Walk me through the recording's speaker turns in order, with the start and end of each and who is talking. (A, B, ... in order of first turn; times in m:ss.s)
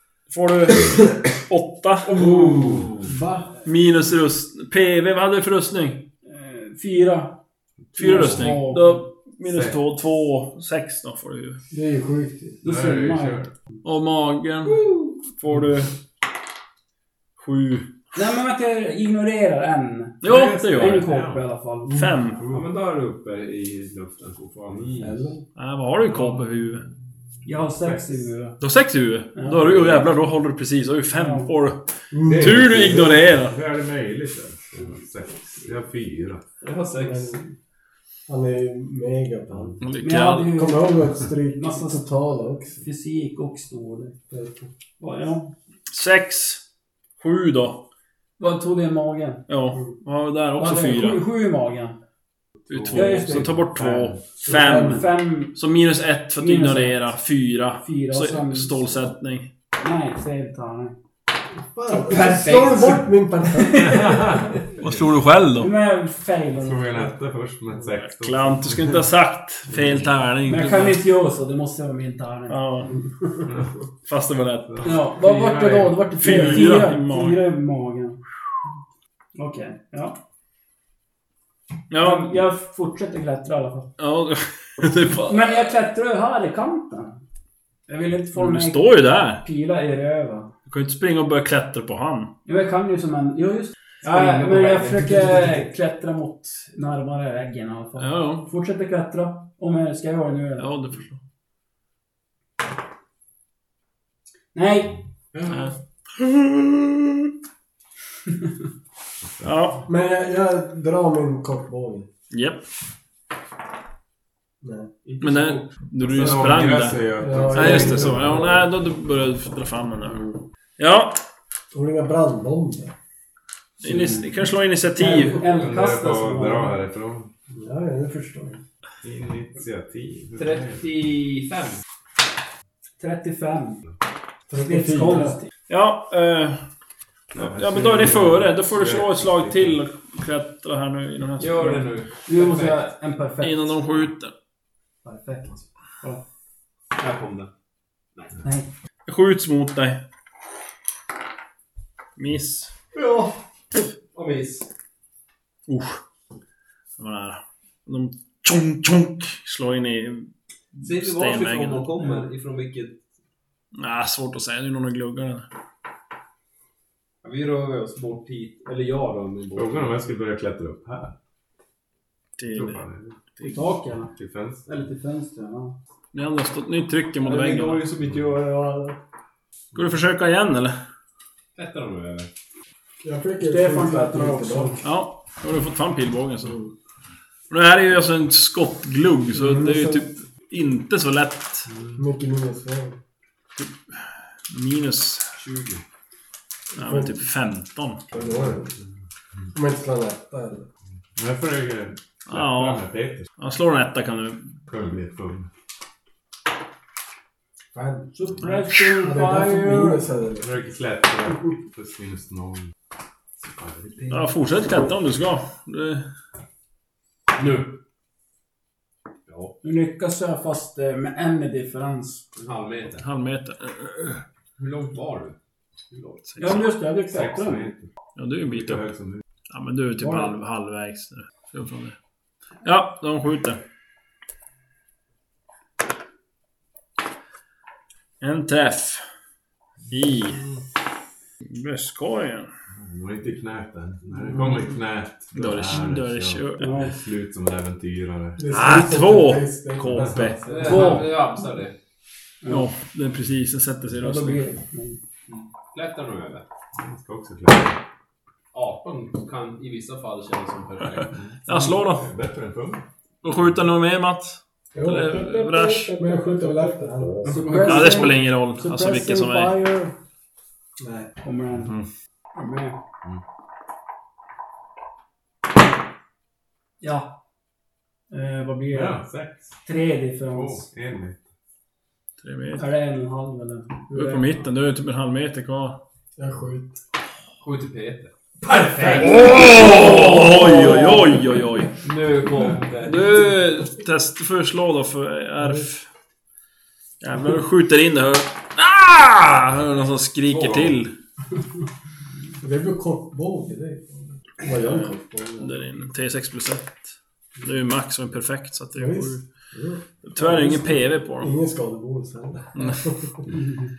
0:00.3-0:02.3 A
0:02.2-0:03.5 B
0:02.2-0:02.9 C
0:02.5-0:02.8 D
0:03.6-0:06.1 A
0:06.2-0:07.4 E
0:07.9-0:11.6 A
0:08.0-0:09.0 E
0:08.0-0:08.5 C
0:09.4-0:09.8 C
0:11.7-0:12.6 B
0:12.6-0:13.4 E
0:12.6-0:13.5 C
0:13.8-0:15.9 A
0:17.4-0:17.9 A
0:18.1-0:22.0 E
0:20.2-0:21.0 A
0:20.3-0:21.4 C
0:21.9-0:22.4 A
0:22.5-0:25.3 D
0:25.0-0:25.4 B
0:25.6-0:26.8 A
0:27.4-0:28.6 E
0:27.6-0:28.0 C
0:28.6-0:33.6 A
0:29.3-0:30.1 E
0:31.1-0:31.5 E
0:32.1-0:33.2 B
0:32.3-0:36.4 C
0:36.6-0:37.4 D
0:37.0-0:37.5 B
0:38.3-0:39.8 B
0:39.8-0:40.6 A
0:40.0-0:42.0 E
0:40.5-0:42.8 B
0:42.8-0:44.2 E
0:44.3-0:44.6 B
0:45.0-0:45.5 E
0:45.9-0:46.6 A
0:47.2-0:47.8 A
0:48.4-0:49.5 E
0:49.5-0:51.2 A
0:50.6-0:52.0 E
0:52.7-0:54.2 C
0:52.7-0:59.5 A
0:52.9-0:53.6 E
0:54.4-0:55.0 B
0:54.5-0:55.6 E
0:56.4-0:57.1 E
0:57.8-0:59.1 E
0:59.8-1:01.0 E
1:01.7-1:04.4 B
1:02.0-1:04.3 E
1:02.2-1:02.7 D
1:03.7-1:05.0 C
1:04.8-1:05.7 A
1:05.6-1:07.1 E
1:06.6-1:09.0 C
1:08.0-1:11.0 A
1:09.7-1:10.1 C
1:10.4-1:13.0 E
1:12.5-1:13.0 A
1:14.1-1:15.1 A
1:14.7-1:16.4 C
1:14.8-1:18.2 E
1:16.0-1:17.4 A
1:19.3-1:20.2 E
1:21.9-1:22.4 A
1:22.0-1:23.9 E
1:24.0-1:25.7 A
1:25.3-1:27.2 E
1:27.9-1:30.5 E
1:28.3-1:29.4 A
1:30.7-1:32.3 A
1:32.4-1:40.7 E
1:34.0-1:35.6 D
1:38.0-1:38.5 A
1:40.6-1:41.2 A
1:44.5-1:45.0 E
1:45.3-1:45.6 D
1:45.5-1:47.2 A
1:49.4-1:49.8 A
1:49.8-1:52.1 B
1:52.3-1:52.6 A
1:54.6-1:54.9 B
1:55.0-1:55.8 D
1:55.2-2:01.2 A
1:56.0-1:58.6 C
1:57.2-1:58.6 B
2:00.1-2:00.4 B
2:01.7-2:02.9 B
2:03.8-2:05.5 A
2:03.8-2:04.2 E
2:03.8-2:04.2 B
2:05.0-2:06.8 E
2:05.5-2:07.3 C
2:07.5-2:08.6 B
2:09.0-2:10.8 C
2:10.4-2:11.8 D
2:13.0-2:13.8 E
2:14.5-2:15.4 B
2:14.5-2:15.5 E
2:15.7-2:16.6 A
2:17.3-2:19.8 C
2:17.3-2:21.8 A
2:21.4-2:22.9 D
2:22.2-2:23.8 E
2:23.4-2:24.3 A
2:25.0-2:26.2 E
2:27.0-2:27.5 D
2:28.2-2:28.4 D
2:28.4-2:28.7 E
2:29.1-2:30.0 A
2:32.2-2:32.7 A
2:33.0-2:33.3 D
2:34.1-2:34.7 D
2:35.7-2:36.0 A
2:37.0-2:41.9 A
2:40.8-2:43.0 D
2:43.8-2:45.4 A
2:47.2-2:50.0 D
2:49.6-2:51.1 C
2:52.4-2:52.8 A
2:52.5-2:53.2 C
2:53.4-2:54.1 E
2:54.1-2:54.6 C
2:54.7-2:55.8 E
2:56.1-2:57.9 A
2:57.2-2:59.0 D
2:59.7-3:00.8 A
3:01.5-3:02.3 D
3:03.0-3:04.8 B
3:03.4-3:04.8 E
3:04.8-3:06.6 A
3:07.5-3:11.7 A
3:09.3-3:10.0 B
3:12.0-3:13.0 B
3:13.6-3:15.3 A
3:15.4-3:15.8 D
3:16.7-3:17.2 B
3:16.7-3:18.1 A
3:18.1-3:18.7 B
3:18.1-3:18.8 C
3:19.5-3:20.7 B
3:21.2-3:23.3 C
3:22.3-3:22.8 A
3:23.4-3:24.4 A
3:24.7-3:25.5 C
3:27.7-3:28.1 B
3:28.1-3:30.0 E
3:28.9-3:30.6 B
3:30.4-3:32.7 C
3:33.4-3:34.3 C
3:34.1-3:36.0 A
3:37.3-3:37.8 D
3:39.3-3:39.5 D
3:39.6-3:42.2 E
3:42.3-3:43.0 D
3:43.0-3:44.2 A
3:44.6-3:45.4 D
3:45.9-3:46.2 D
3:46.3-3:46.7 A
3:46.4-3:47.7 E
3:47.1-3:47.8 C
3:48.2-3:48.9 A
3:48.4-3:49.2 C
3:49.5-3:51.9 A
3:50.0-3:50.3 E
3:52.6-3:53.6 A
3:58.2-3:59.0 A
3:59.9-4:00.4 A
4:01.5-4:02.5 A
4:02.7-4:08.4 C
4:05.3-4:06.9 A
4:06.6-4:06.9 E
4:08.4-4:11.0 B
4:08.4-4:10.4 A
4:10.4-4:11.8 D
4:10.6-4:11.1 E
4:12.4-4:12.7 E
4:12.5-4:14.5 A
4:14.0-4:15.0 E
4:15.3-4:16.4 D
4:16.8-4:17.8 C
4:18.5-4:21.1 D
4:21.1-4:22.8 C
4:21.4-4:22.1 A
4:23.2-4:26.0 A
4:24.7-4:27.3 B
4:27.2-4:28.0 D
4:27.2-4:29.9 E
4:27.6-4:29.6 A
4:30.8-4:31.1 B
4:31.2-4:31.8 E
4:32.3-4:32.8 E
4:36.8-4:37.1 E
4:38.1-4:39.0 E
4:38.7-4:39.5 C
4:39.6-4:40.7 E
4:40.3-4:41.2 C
4:42.2-4:42.7 A
4:42.6-4:44.2 E
4:43.9-4:45.8 A
4:46.2-4:46.8 B
4:47.4-4:49.3 D
4:48.8-4:49.0 E
4:48.9-4:51.8 A
4:50.2-4:51.1 E
4:51.8-4:53.1 D
4:52.8-4:55.8 A
4:55.4-4:55.6 B
4:57.0-5:00.9 A
5:00.3-5:00.6 D
5:02.4-5:05.6 B
5:04.6-5:06.8 A
5:07.4-5:09.2 A
5:08.7-5:13.2 B
5:10.0-5:11.3 A
5:12.6-5:12.8 A